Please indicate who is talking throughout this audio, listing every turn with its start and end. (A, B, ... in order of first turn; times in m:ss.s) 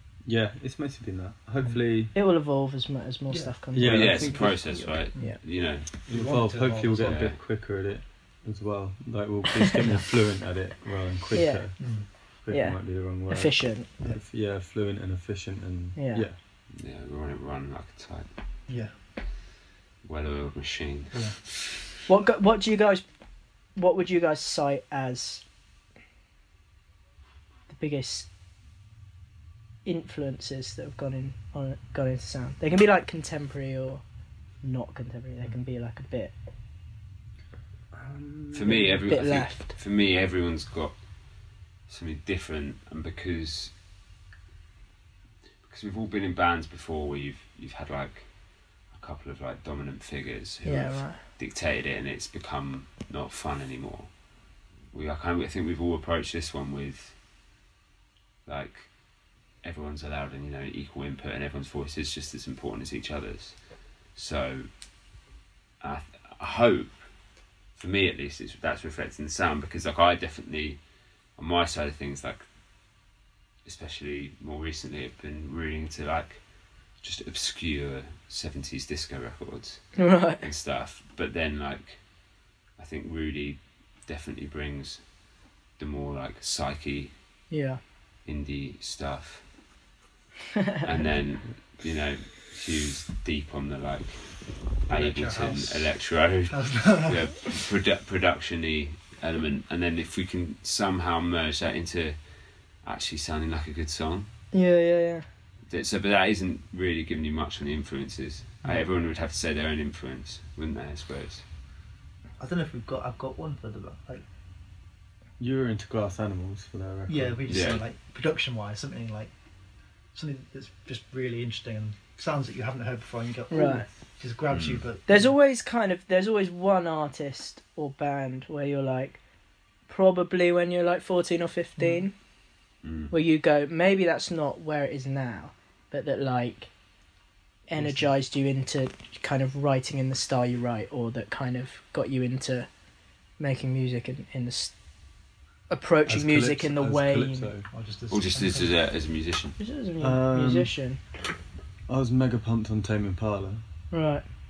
0:00.2-0:02.1 A
0:02.1-0:05.4 B
0:03.3-0:03.5 C
0:03.7-0:04.6 A
0:03.8-0:05.9 D
0:06.1-0:07.3 C
0:06.1-0:11.9 A
0:07.0-0:07.4 D
0:11.3-0:11.9 B
0:11.8-0:12.0 C
0:12.4-0:16.4 A
0:12.5-0:13.9 B
0:16.0-0:16.3 B
0:16.7-0:18.3 D
0:20.0-0:21.7 D
0:22.1-0:23.0 B
0:23.8-0:25.4 B
0:27.7-0:28.3 B
0:29.8-0:34.0 B
0:34.6-0:36.3 B
0:37.9-0:39.0 A
0:38.5-0:41.0 D
0:38.8-0:39.7 B
0:41.9-0:43.7 D
0:45.7-0:48.3 D
0:48.9-0:54.1 D
0:50.6-0:51.2 B
0:54.9-0:57.2 D
0:58.5-0:58.9 D
0:59.6-1:03.6 D
1:04.1-1:04.7 D
1:05.8-1:07.0 D
1:07.8-1:10.8 D
1:11.4-1:12.4 D
1:13.6-1:16.4 D
1:17.0-1:22.0 D
1:20.0-1:20.5 B
1:22.8-1:25.0 D
1:25.8-1:27.1 D
1:27.5-1:27.8 B
1:28.2-1:29.4 D
1:30.6-1:30.8 B
1:30.8-1:34.2 D
1:34.9-1:42.2 D
1:34.9-1:35.9 C
1:36.5-1:37.3 C
1:42.8-1:44.3 D
1:44.5-1:45.2 B
1:45.7-1:51.4 D
1:52.4-1:54.2 C
1:55.4-1:57.7 A
1:57.1-1:59.3 C
1:57.5-1:57.8 D
2:00.1-2:05.3 C
2:03.5-2:03.9 B
2:04.5-2:04.8 D
2:05.1-2:09.2 B
2:09.9-2:12.1 B
2:11.8-2:12.1 C
2:12.8-2:13.1 D
2:13.1-2:16.7 B
2:17.7-2:22.7 B
2:23.4-2:24.7 B
2:25.7-2:27.5 B
2:26.1-2:27.7 A
2:27.7-2:28.7 C
2:28.1-2:29.6 D
2:29.6-2:31.0 B
2:30.0-2:30.7 A
2:31.9-2:33.6 A
2:33.9-2:34.2 B